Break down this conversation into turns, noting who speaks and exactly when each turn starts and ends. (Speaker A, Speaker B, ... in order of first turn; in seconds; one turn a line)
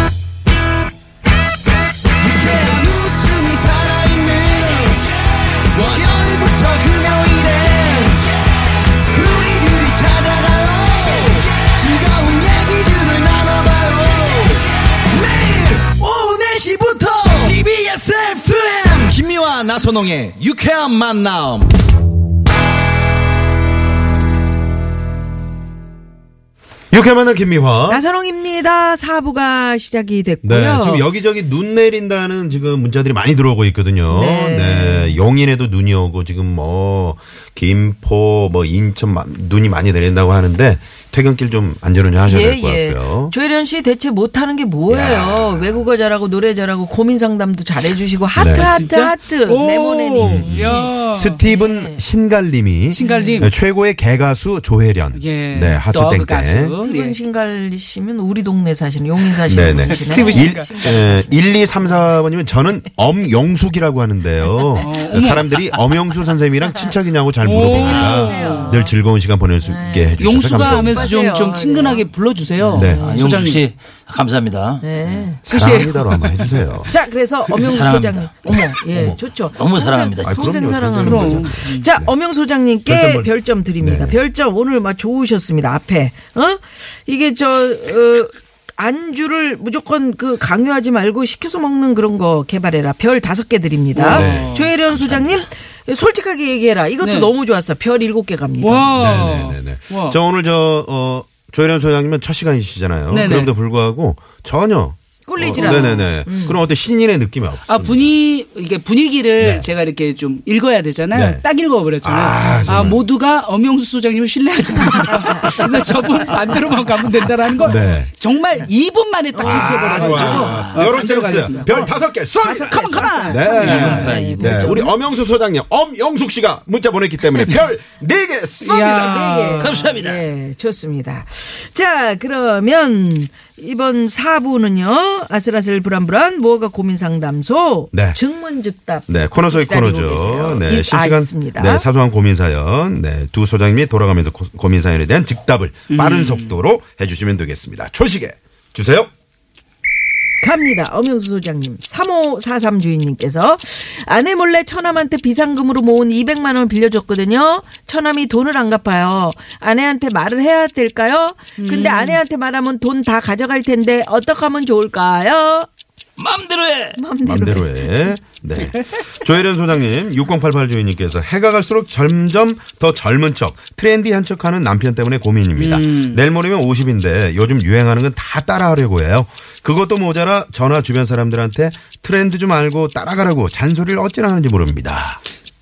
Speaker A: 2.2-5.0
Speaker A: 5.7-8.2
Speaker A: 9.1-21.7
Speaker B: 26.9-28.0
Speaker C: 27.9-31.1
Speaker B: 30.4-43.3
Speaker C: 34.1-35.2
Speaker C: 42.2-52.0
Speaker B: 44.9-45.9
Speaker B: 48.4-48.8
Speaker D: 48.5-51.4
Speaker B: 50.2-56.8
Speaker D: 52.9-53.5
Speaker C: 53.0-53.5
Speaker D: 55.1-57.2
Speaker C: 56.6-62.0
Speaker B: 59.5-71.2
Speaker D: 59.9-60.7
Speaker C: 64.7-65.3
Speaker D: 64.8-65.6
Speaker D: 67.4-68.8
Speaker C: 67.7-69.0
Speaker E: 67.8-68.2
Speaker C: 69.6-72.1
Speaker D: 70.2-73.6
Speaker C: 72.7-73.3
Speaker B: 72.7-73.0
Speaker E: 73.0-74.9
Speaker C: 74.8-75.4
Speaker B: 75.0-76.9
Speaker D: 75.5-76.6
Speaker C: 76.9-98.9
Speaker E: 77.6-78.6
Speaker B: 78.5-79.2
Speaker E: 79.5-80.4
Speaker B: 80.2-82.1
Speaker D: 81.0-81.9
Speaker B: 82.9-84.2
Speaker D: 93.9-94.7
Speaker B: 94.1-95.5
Speaker D: 97.0-97.3
Speaker D: 98.6-100.2
Speaker B: 98.9-108.1
Speaker D: 103.1-103.5
Speaker C: 105.3-106.6
Speaker D: 107.7-124.0
Speaker B: 109.4-109.7
Speaker B: 111.1-111.4
Speaker B: 112.0-113.0
Speaker C: 112.5-112.9
Speaker C: 115.2-116.1
Speaker B: 117.6-118.1
Speaker C: 119.3-124.9
Speaker B: 119.4-129.7
Speaker E: 119.8-121.0
Speaker E: 123.5-124.9
Speaker D: 128.6-129.7
Speaker C: 128.7-141.8
Speaker E: 129.6-130.2
Speaker B: 137.9-138.2
Speaker B: 139.1-149.1
Speaker D: 145.9-146.6
Speaker C: 150.4-165.7
Speaker D: 161.6-162.2
Speaker E: 166.2-167.0
Speaker C: 167.0-168.2
Speaker B: 167.2-185.2
Speaker D: 175.6-176.2